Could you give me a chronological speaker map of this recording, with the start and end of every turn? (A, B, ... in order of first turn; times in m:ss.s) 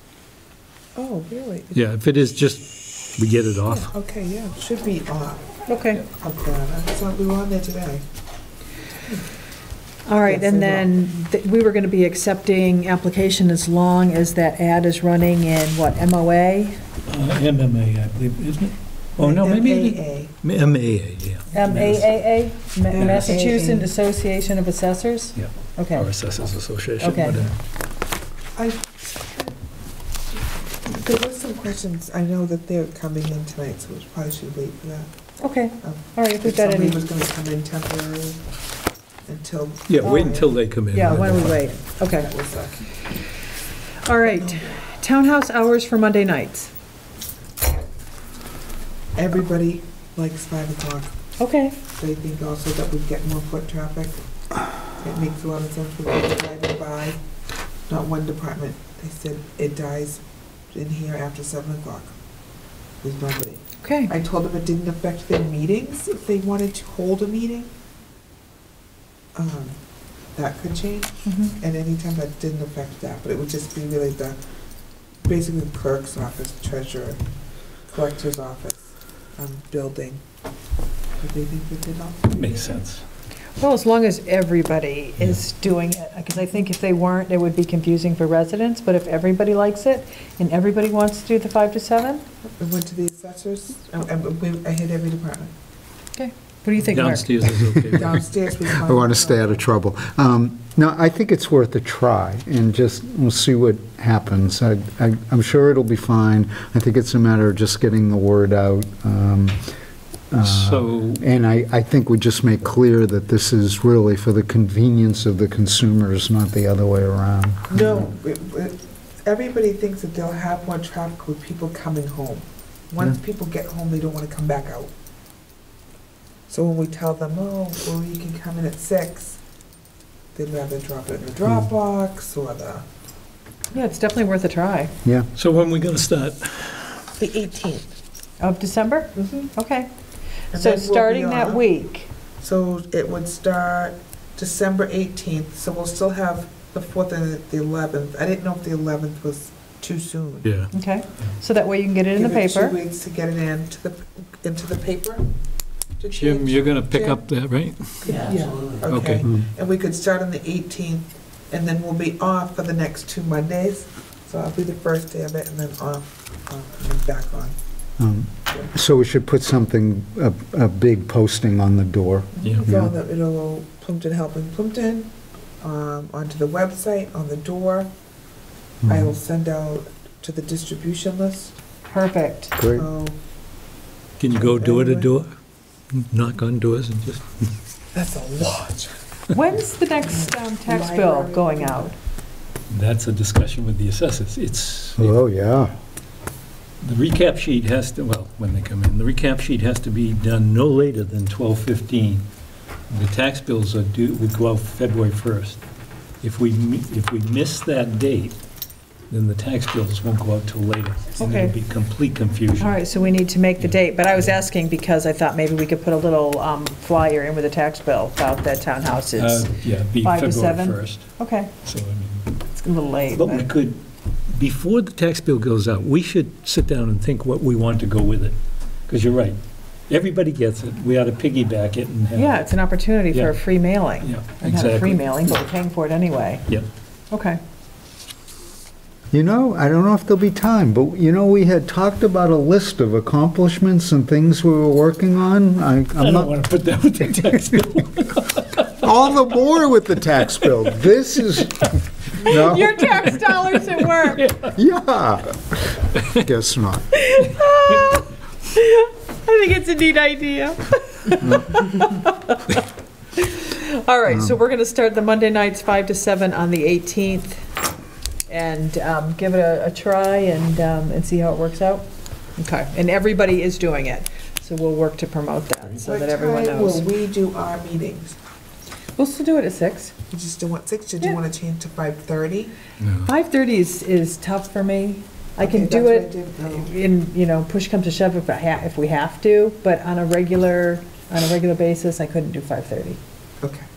0:01.0-0:01.8 A
0:01.7-0:02.7 B
0:03.2-0:03.9 B
0:03.7-0:05.5 A
0:05.7-0:06.0 C
0:06.1-0:08.0 A
0:10.1-0:16.8 C
0:10.2-0:10.9 A
0:17.1-0:22.2 B
0:19.2-0:20.3 A
0:21.5-0:26.1 C
0:22.9-0:23.9 A
0:22.9-0:23.4 B
0:25.4-0:27.6 B
0:27.0-0:27.5 C
0:28.6-0:29.5 A
0:30.8-0:35.1 A
0:35.4-0:37.1 C
0:35.8-0:38.4 A
0:39.3-0:41.4 A
0:39.9-0:41.6 B
0:40.0-0:40.3 C
0:40.9-0:42.3 C
0:42.0-0:42.9 A
0:44.0-0:46.7 C
0:44.2-0:44.8 A
0:49.2-0:51.2 A
0:51.4-0:51.8 C
0:52.0-0:54.2 A
0:55.0-0:57.2 A
0:57.9-1:02.2 A
1:03.0-1:07.7 A
1:03.8-1:04.1 C
1:09.4-1:09.8 A
1:10.4-1:14.4 A
1:11.3-1:11.6 C
1:15.2-1:17.2 A
1:17.9-1:20.2 A
1:21.2-1:22.7 A
1:22.3-1:23.0 B
1:23.6-1:32.2 C
1:32.6-1:35.5 A
1:36.2-1:37.3 C
1:36.8-1:38.2 B
1:37.5-1:49.7 D
1:37.9-1:39.6 A
1:50.3-1:58.1 D
1:50.4-1:51.2 B
1:57.7-2:04.9 A
2:06.5-2:09.4 A
2:10.4-2:12.8 A
2:13.7-2:14.9 C
2:15.0-2:15.3 D
2:15.4-2:17.0 B
2:17.2-2:17.9 A
2:18.4-2:19.9 C
2:19.2-2:19.5 A
2:20.5-2:21.6 A
2:20.5-2:22.1 C
2:22.4-2:30.5 A
2:30.4-2:31.3 B
2:30.7-2:32.8 C
2:32.1-2:35.3 A
2:36.0-2:37.2 A
2:36.1-2:39.3 B
2:38.0-2:47.6 A
2:48.0-2:52.9 D
2:52.4-2:57.9 A
2:52.4-2:52.7 B
2:58.8-2:59.1 D
2:58.9-3:01.6 A
3:01.9-3:02.6 C
3:02.6-3:02.9 D
3:02.7-3:03.2 A
3:04.2-3:05.3 B
3:04.4-3:05.1 A
3:05.9-3:07.2 B
3:07.9-3:08.9 A
3:09.3-3:11.9 C
3:10.0-3:11.9 A
3:12.7-3:15.2 B
3:15.0-3:15.7 D
3:16.8-3:22.2 B
3:22.9-3:25.6 B
3:26.2-3:28.4 B
3:29.1-3:32.8 B
3:31.2-3:31.5 C
3:32.6-3:41.5 C
3:39.2-3:41.1 B
3:41.6-3:42.3 B
3:42.5-3:43.5 C
3:43.1-3:48.4 B
3:48.9-3:52.4 B
3:52.1-3:56.4 C
3:53.1-3:53.4 B
3:54.0-3:55.4 B
3:57.1-3:57.4 C
3:59.1-4:06.4 D
4:06.0-4:08.8 B
4:08.7-4:13.0 D
4:12.2-4:14.3 C
4:14.0-4:14.6 B
4:14.4-4:16.8 D
4:16.0-4:16.2 B
4:16.9-4:22.6 C
4:23.2-4:27.4 C
4:24.1-4:24.4 D
4:28.3-4:31.9 C
4:32.4-4:36.9 C
4:35.8-4:38.2 A
4:39.0-4:40.0 C
4:40.1-4:42.5 A
4:42.8-4:43.1 B
4:43.1-4:53.0 C
4:45.4-4:46.7 A